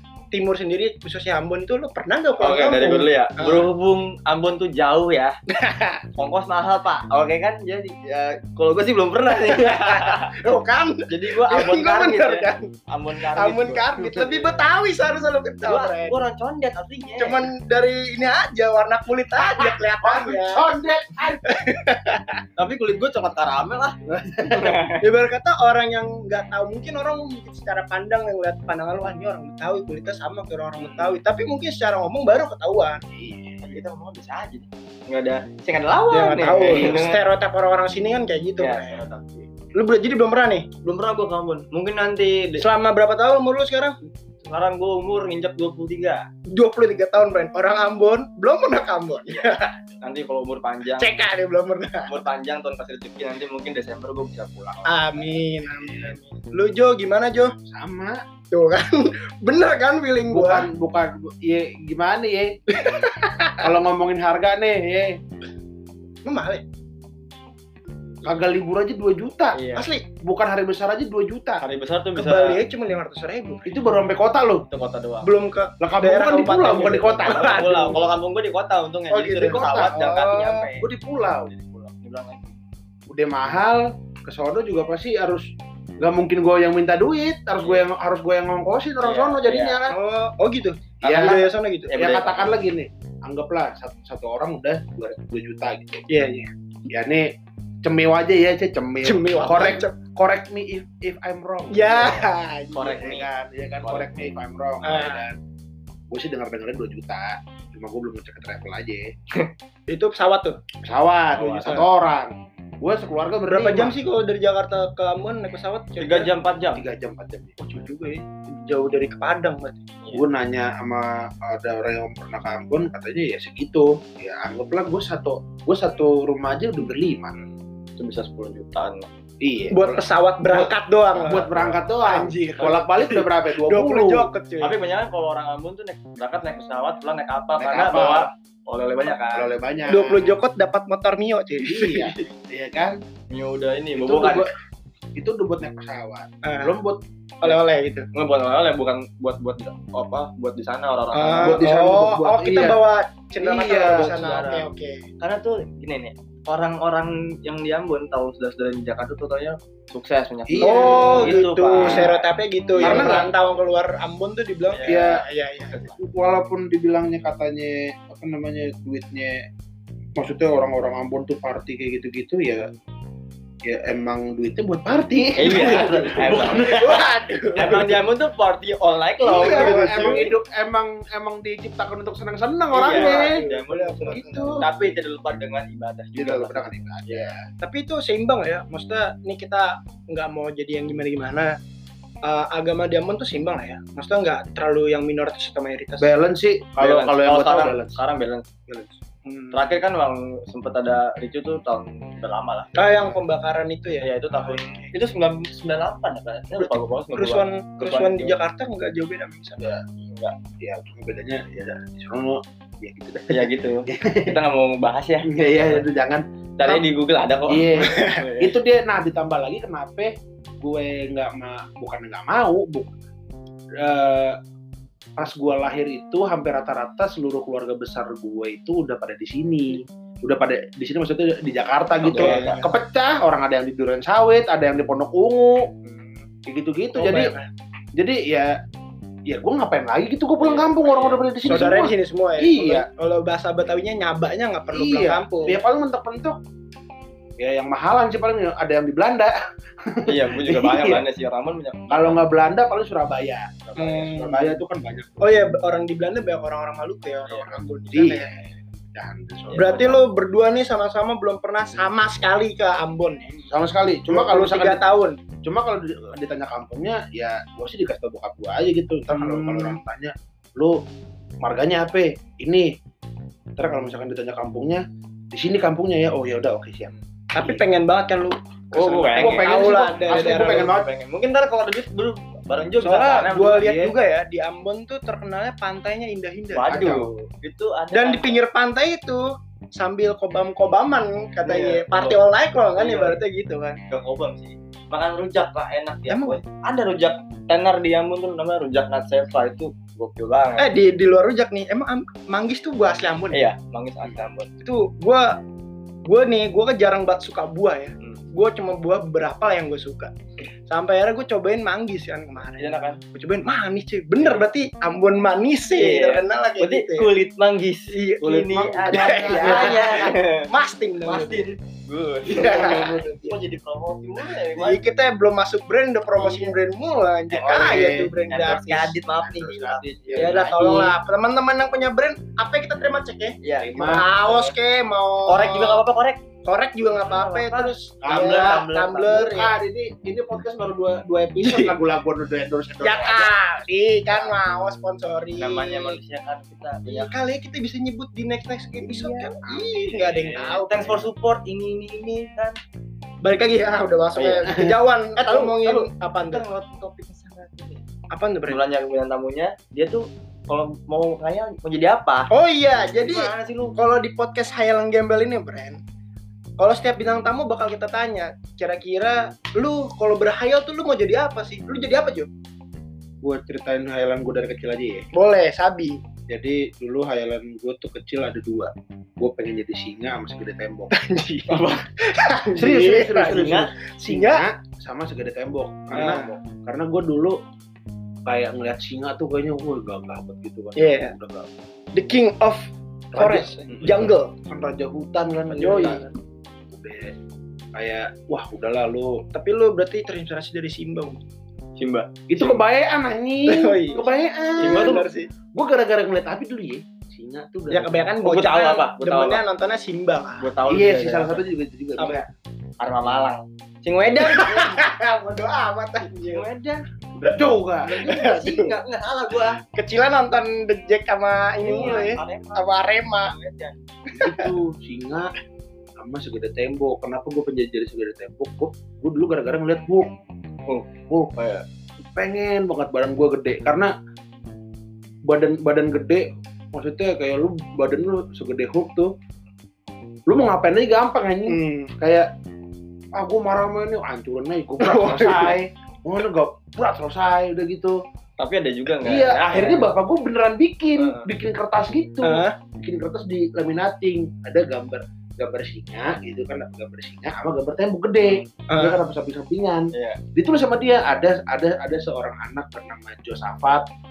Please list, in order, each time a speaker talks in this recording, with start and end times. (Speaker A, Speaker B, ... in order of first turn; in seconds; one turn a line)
Speaker A: 0.3-3.7
Speaker B: 2.4-5.4
Speaker A: 5.5-6.0
Speaker B: 6.2-10.3
Speaker A: 9.4-12.7
Speaker B: 11.1-14.5
Speaker A: 13.3-16.2
Speaker B: 15.7-17.5
Speaker A: 17.2-20.7
Speaker C: 19.7-21.6
Speaker A: 21.5-22.4
Speaker B: 22.6-24.0
Speaker C: 24.1-24.9
Speaker B: 24.5-25.0
Speaker A: 25.0-33.0
Speaker B: 30.8-31.2
Speaker C: 33.1-33.8
Speaker B: 33.6-37.2
Speaker A: 36.1-39.0
Speaker C: 36.6-37.0
Speaker B: 38.6-39.5
Speaker A: 39.8-40.7
Speaker B: 40.8-42.7
Speaker A: 42.6-44.0
Speaker B: 44.4-46.3
Speaker A: 46.5-49.8
Speaker B: 49.3-51.1
Speaker A: 51.0-52.2
Speaker B: 52.1-55.2
Speaker A: 54.9-57.5
Speaker B: 55.9-56.4
Speaker C: 57.7-58.2
Speaker A: 58.5-60.7
Speaker C: 60.3-62.5
Speaker A: 62.7-63.7
Speaker C: 63.6-65.2
Speaker A: 66.2-66.6
Speaker C: 68.2-69.6
Speaker B: 69.5-69.9
Speaker A: 69.8-70.1
Speaker C: 70.2-71.6
Speaker B: 71.6-72.6
Speaker A: 72.2-73.8
Speaker C: 73.7-74.7
Speaker B: 74.7-75.3
Speaker A: 75.2-78.0
Speaker C: 75.8-77.7
Speaker B: 77.2-80.9
Speaker A: 79.1-80.7
Speaker C: 79.2-80.1
Speaker C: 80.8-81.5
Speaker B: 81.5-82.6
Speaker C: 83.1-90.0
Speaker B: 89.0-89.8
Speaker A: 89.9-91.9
Speaker B: 91.0-92.6
Speaker C: 91.0-97.3
Speaker A: 96.1-96.5
Speaker C: 97.8-102.2
Speaker A: 99.0-100.0
Speaker A: 101.7-103.1
Speaker B: 102.7-103.3
Speaker C: 102.9-105.4
Speaker B: 103.8-104.1
Speaker A: 104.8-105.2
Speaker C: 106.1-109.1
Speaker A: 109.9-110.6
Speaker C: 110.8-114.0
Speaker B: 111.3-111.8
Speaker A: 113.5-116.3
Speaker B: 116.0-116.8
Speaker C: 116.7-117.6
Speaker A: 117.6-119.8
Speaker C: 120.1-127.4
Speaker B: 127.4-129.1
Speaker C: 129.4-134.3
Speaker A: 129.7-131.5
Speaker B: 131.2-131.8
Speaker A: 132.0-134.8
Speaker B: 134.6-139.5
Speaker C: 137.6-138.3
Speaker C: 139.3-140.3
Speaker A: 139.9-142.2
Speaker C: 141.6-143.0
Speaker B: 143.3-144.5
Speaker C: 144.0-144.5
Speaker C: 145.2-147.0
Speaker A: 146.4-146.8
Speaker A: 147.4-148.1
Speaker B: 148.1-151.6
Speaker A: 151.1-155.0
Speaker C: 151.4-152.8
Speaker C: 153.4-154.1
Speaker B: 153.9-154.7
Speaker B: 155.2-163.3
Speaker C: 160.5-162.1
Speaker A: 160.6-165.9
Speaker C: 162.8-163.3
Speaker B: 164.7-165.1
Speaker C: 164.9-165.2
Speaker C: 166.0-169.5
Speaker C: 170.2-172.7
Speaker C: 173.7-177.0
Speaker B: 175.3-177.0
Speaker A: 175.6-177.9
Speaker B: 177.6-180.3
Speaker C: 177.6-177.9
Speaker C: 179.2-183.4
Speaker A: 179.3-180.3
Speaker B: 182.7-187.3
Speaker A: 182.8-184.8
Speaker C: 184.1-184.6
Speaker C: 186.2-187.4
Speaker A: 187.6-191.5
Speaker A: 192.2-196.1
Speaker C: 196.0-198.0
Speaker B: 196.8-198.7
Speaker A: 199.3-199.5
Speaker B: 199.5-203.0
Speaker A: 202.8-204.9
Speaker B: 204.0-208.3
Speaker A: 206.6-209.7
Speaker C: 209.6-209.8
Speaker B: 210.1-210.3
Speaker C: 210.6-214.4
Speaker B: 213.3-215.8
Speaker C: 215.3-216.2
Speaker B: 216.6-218.6
Speaker C: 217.5-222.9
Speaker A: 217.8-218.2
Speaker C: 223.8-224.4
Speaker C: 225.2-235.7
Speaker B: 232.0-232.6
Speaker A: 232.1-232.7
Speaker B: 235.8-236.3
Speaker C: 236.5-237.3
Speaker A: 236.9-237.5
Speaker C: 238.0-238.5
Speaker C: 239.3-242.9
Speaker B: 240.4-241.2
Speaker A: 241.4-245.6
Speaker C: 244.7-246.4
Speaker C: 247.4-251.0
Speaker B: 250.1-252.2
Speaker C: 251.9-255.5
Speaker A: 253.8-254.6
Speaker A: 255.2-258.3
Speaker B: 257.3-257.6
Speaker C: 257.9-260.0
Speaker B: 259.5-260.0
Speaker A: 259.5-263.4
Speaker C: 263.4-264.8
Speaker A: 264.1-265.2
Speaker C: 265.4-270.8
Speaker A: 269.1-269.8
Speaker C: 271.4-272.7
Speaker C: 273.6-277.6
Speaker A: 277.3-280.7
Speaker C: 278.7-280.9
Speaker B: 278.8-283.7
Speaker C: 282.8-283.9
Speaker A: 282.9-286.9
Speaker B: 286.5-288.4
Speaker C: 286.7-287.1
Speaker A: 287.9-293.8
Speaker B: 291.4-292.2
Speaker B: 292.8-293.2
Speaker B: 293.9-300.7
Speaker A: 296.1-296.4
Speaker A: 300.6-303.4
Speaker B: 303.3-304.5
Speaker A: 304.6-305.4
Speaker A: 306.1-310.1
Speaker A: 310.7-317.1
Speaker B: 312.6-313.0
Speaker B: 314.2-314.5
Speaker B: 315.7-320.5
Speaker A: 317.9-321.5
Speaker C: 318.3-320.1
Speaker B: 321.0-324.8
Speaker A: 322.3-323.4
Speaker C: 322.4-323.1
Speaker A: 324.6-329.0
Speaker B: 326.2-326.6
Speaker C: 327.3-328.1
Speaker B: 327.4-330.8
Speaker C: 329.2-330.9
Speaker A: 330.2-335.8
Speaker B: 333.4-334.5
Speaker C: 333.6-334.1
Speaker B: 335.3-336.2
Speaker A: 336.4-339.5
Speaker B: 337.0-339.4
Speaker C: 338.0-343.3
Speaker A: 341.4-341.7
Speaker A: 342.8-346.0
Speaker B: 345.4-347.1
Speaker A: 346.9-351.1
Speaker B: 348.8-352.6
Speaker A: 353.2-356.5
Speaker B: 354.2-354.5
Speaker C: 354.5-354.8
Speaker B: 355.2-357.8
Speaker A: 358.1-358.6
Speaker B: 358.5-362.3
Speaker A: 362.3-365.8
Speaker B: 362.9-363.8
Speaker A: 366.6-372.3
Speaker C: 373.2-375.1
Speaker A: 375.1-376.0
Speaker C: 376.3-380.9
Speaker A: 380.9-384.5
Speaker B: 381.5-381.8
Speaker C: 382.6-387.4
Speaker B: 383.2-383.7
Speaker B: 385.9-386.4
Speaker A: 385.9-386.2
Speaker C: 388.3-391.5
Speaker A: 390.8-391.1
Speaker A: 391.9-394.3
Speaker C: 393.1-396.1
Speaker A: 395.6-396.1
Speaker B: 395.6-396.0
Speaker C: 396.7-397.1
Speaker C: 397.8-399.2
Speaker A: 399.3-401.2
Speaker B: 401.8-402.6
Speaker C: 402.3-408.1
Speaker A: 403.5-404.1
Speaker A: 404.6-405.3
Speaker B: 404.6-405.1
Speaker A: 407.7-410.5
Speaker B: 408.2-409.4
Speaker B: 410.4-411.4
Speaker C: 410.7-412.2
Speaker B: 412.8-414.8
Speaker A: 414.2-416.4
Speaker B: 416.3-416.8
Speaker C: 417.2-418.1
Speaker A: 417.9-418.8
Speaker B: 418.0-419.6
Speaker A: 419.7-423.3
Speaker B: 421.6-423.8
Speaker C: 424.1-425.3
Speaker A: 424.1-424.5
Speaker C: 426.0-430.1
Speaker B: 430.7-431.6
Speaker C: 432.0-433.9
Speaker C: 435.3-439.1
Speaker C: 440.3-442.3
Speaker A: 441.5-441.9
Speaker C: 443.1-448.0
Speaker A: 444.8-445.6
Speaker B: 448.4-449.9
Speaker C: 449.0-463.9
Speaker B: 451.0-451.3
Speaker A: 452.2-452.6
Speaker B: 458.2-458.5
Speaker A: 458.7-459.0
Speaker B: 459.9-460.2